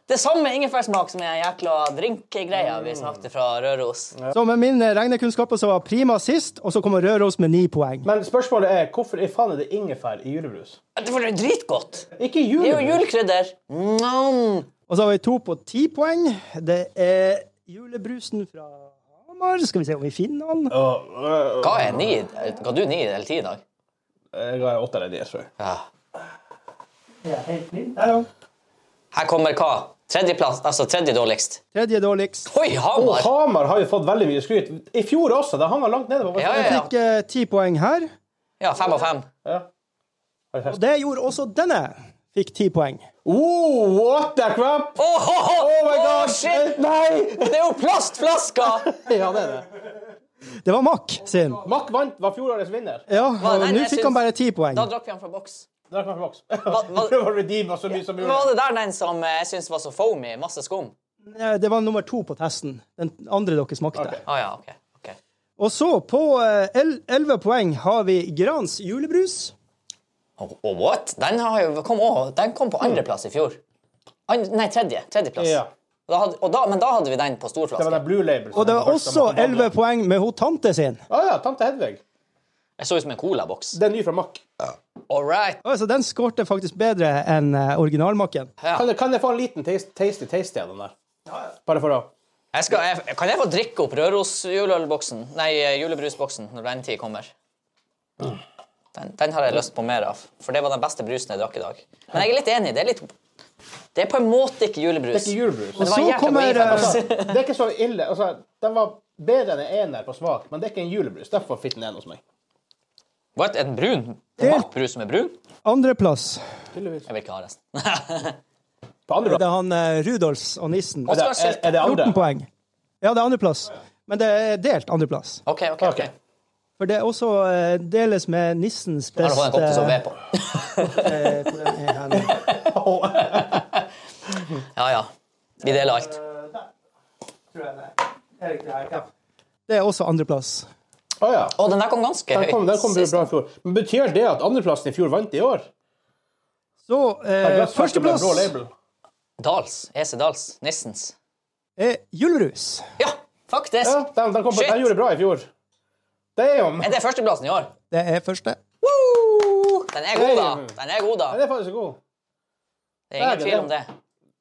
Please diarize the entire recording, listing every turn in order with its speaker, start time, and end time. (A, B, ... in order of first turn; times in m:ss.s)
0:00.1-0:04.1 A
0:02.6-0:03.2 B
0:04.3-0:08.1 C
0:08.0-0:10.8 B
0:11.0-0:14.7 A
0:12.2-0:13.0 B
0:14.9-0:20.8 C
0:20.7-0:22.2 B
0:21.6-0:23.6 A
0:24.3-0:25.5 B
0:25.6-0:25.9 A
0:27.2-0:28.3 C
0:29.1-0:31.6 A
0:31.8-0:32.5 C
0:32.5-0:33.3 A
0:33.0-0:36.8 B
0:36.4-0:36.9 A
0:36.5-0:38.1 C
0:38.6-0:39.3 A
0:39.4-0:39.7 B
0:40.5-0:40.8 B
0:40.7-0:43.1 C
0:43.2-0:45.0 B
0:45.0-0:48.9 A
0:45.5-0:47.6 B
0:48.6-0:49.7 B
0:50.6-0:51.6 C
0:51.6-0:53.1 B
0:53.1-0:54.9 C
0:53.4-0:55.7 A
0:55.9-0:58.5 B
0:56.6-0:57.2 A
0:57.9-1:00.9 A
1:01.2-1:04.2 C
1:04.0-1:04.2 B
1:04.2-1:05.2 A
1:05.6-1:09.5 C
1:10.4-1:13.6 A
1:14.3-1:18.0 A
1:15.4-1:15.7 B
1:17.8-1:19.7 B
1:18.5-1:21.0 C
1:21.1-1:22.0 B
1:22.8-1:23.8 A
1:23.7-1:24.4 B
1:25.1-1:25.6 A
1:25.6-1:28.5 C
1:28.6-1:28.9 A
1:28.7-1:30.9 B
1:31.6-1:32.1 B
1:32.5-1:37.3 A
1:38.9-1:43.1 A
1:44.0-1:47.4 A
1:45.1-1:45.9 B
1:45.8-1:47.0 C
1:46.6-1:52.2 B
1:53.4-1:55.4 A
1:54.4-1:54.7 C
1:55.6-1:56.4 C
1:56.7-1:57.1 B
1:57.1-1:58.4 A
1:59.1-1:59.4 B
1:59.2-2:01.2 C
2:01.1-2:01.9 A
2:01.1-2:02.2 B
2:01.8-2:02.5 C
2:03.0-2:05.4 C
2:05.5-2:06.1 A
2:05.8-2:06.1 B
2:06.8-2:10.0 C
2:09.2-2:11.1 A
2:10.8-2:12.4 C
2:12.1-2:13.8 A
2:12.5-2:13.5 B
2:14.7-2:16.1 A
2:15.6-2:16.7 C
2:17.5-2:19.1 C
2:19.7-2:20.7 C
2:21.2-2:21.6 B
2:21.6-2:23.3 A
2:22.3-2:25.7 B
2:26.9-2:28.5 C
2:27.4-2:28.7 B
2:29.4-2:31.2 A
2:31.8-2:32.8 C
2:33.0-2:34.9 A
2:33.8-2:35.5 B
2:36.4-2:37.0 B
2:36.8-2:37.7 A
2:37.9-2:38.6 C
2:38.8-2:41.4 A
2:40.1-2:40.8 B
2:41.3-2:42.0 B
2:43.1-2:43.9 A
2:43.2-2:43.7 B